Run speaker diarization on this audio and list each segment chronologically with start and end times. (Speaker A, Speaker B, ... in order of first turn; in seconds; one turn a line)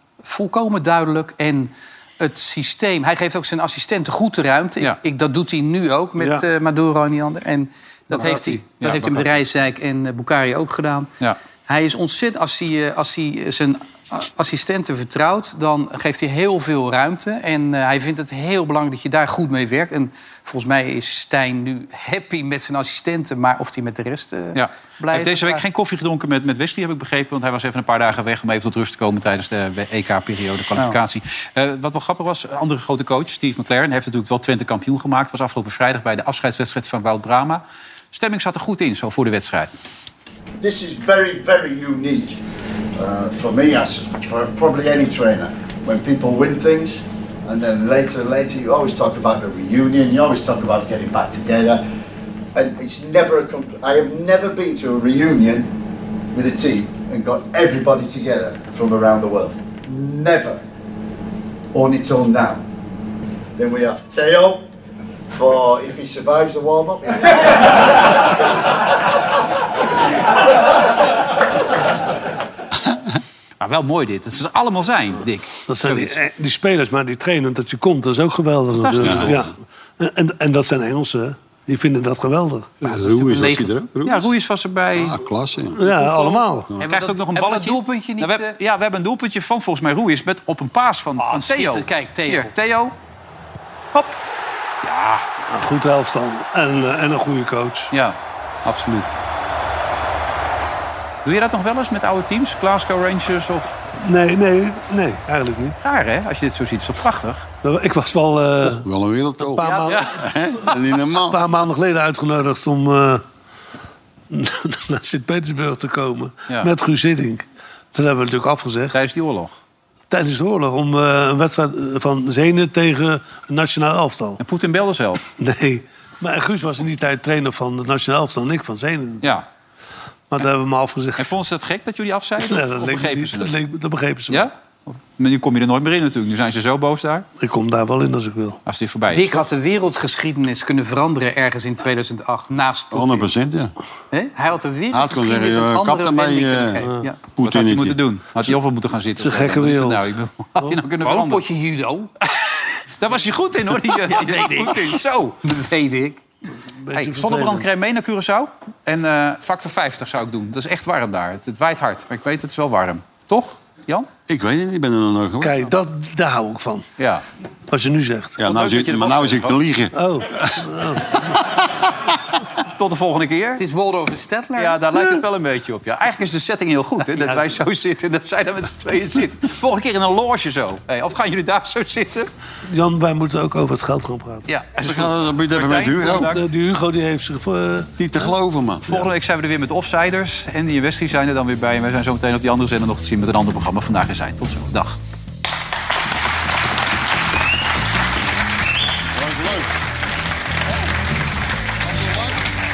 Speaker A: 0.2-11.1
Speaker B: 6.2-6.5
Speaker B: 8.1-8.6
Speaker C: 8.8-9.3
Speaker A: 11.7-25.6
Speaker C: 24.6-39.7
Speaker D: 40.6-42.4
Speaker D: 43.0-51.8
Speaker D: 52.5-55.7
Speaker D: 56.3-60.6
Speaker D: 61.7-62.6
Speaker D: 63.6-64.7
Speaker D: 65.3-68.0
Speaker C: 73.6-76.2
Speaker B: 75.7-82.8
Speaker C: 78.8-79.3
Speaker E: 79.0-79.4
Speaker E: 82.8-84.3
Speaker A: 82.9-83.7
Speaker C: 84.0-85.2
Speaker E: 84.9-85.8
Speaker B: 85.8-86.7
Speaker A: 86.0-88.5
Speaker C: 86.9-92.9
Speaker A: 91.2-92.5
Speaker C: 94.8-95.2
Speaker B: 95.5-97.9
Speaker C: 97.9-99.2
Speaker C: 101.2-103.8
Speaker B: 104.0-105.8
Speaker C: 105.8-107.5
Speaker B: 107.6-108.9
Speaker E: 108.7-111.4
Speaker B: 109.5-110.2
Speaker A: 109.6-110.0
Speaker B: 111.3-113.2
Speaker B: 114.3-119.0
Speaker C: 118.9-119.5
Speaker B: 120.1-124.4
Speaker C: 124.4-125.2
Speaker B: 125.4-129.3
Speaker B: 130.3-131.3
Speaker C: 131.2-133.5
Speaker B: 132.4-134.5
Speaker C: 134.3-137.3
Speaker B: 137.4-138.6
Speaker C: 138.7-139.4
Speaker A: 139.1-143.3
Speaker E: 142.9-143.7
Speaker A: 144.1-147.2
Speaker E: 144.9-148.0
Speaker C: 147.4-151.4
Speaker B: 149.2-150.1
Speaker A: 150.9-152.1
Speaker C: 153.0-155.4
Speaker A: 155.4-156.2
Speaker B: 156.8-157.7
Speaker C: 156.9-164.1
Speaker E: 164.3-165.7
Speaker B: 165.4-166.9
Speaker C: 167.0-167.2
Speaker B: 167.7-168.4
Speaker E: 168.4-170.6
Speaker C: 168.5-169.6
Speaker B: 169.9-171.2
Speaker C: 172.8-173.6
Speaker A: 173.6-174.8
Speaker C: 174.6-182.3
Speaker B: 182.7-184.5
Speaker C: 184.5-186.5
Speaker E: 184.8-186.4
Speaker B: 186.3-187.9
Speaker E: 188.0-189.1
Speaker C: 188.9-195.0
Speaker E: 199.1-199.7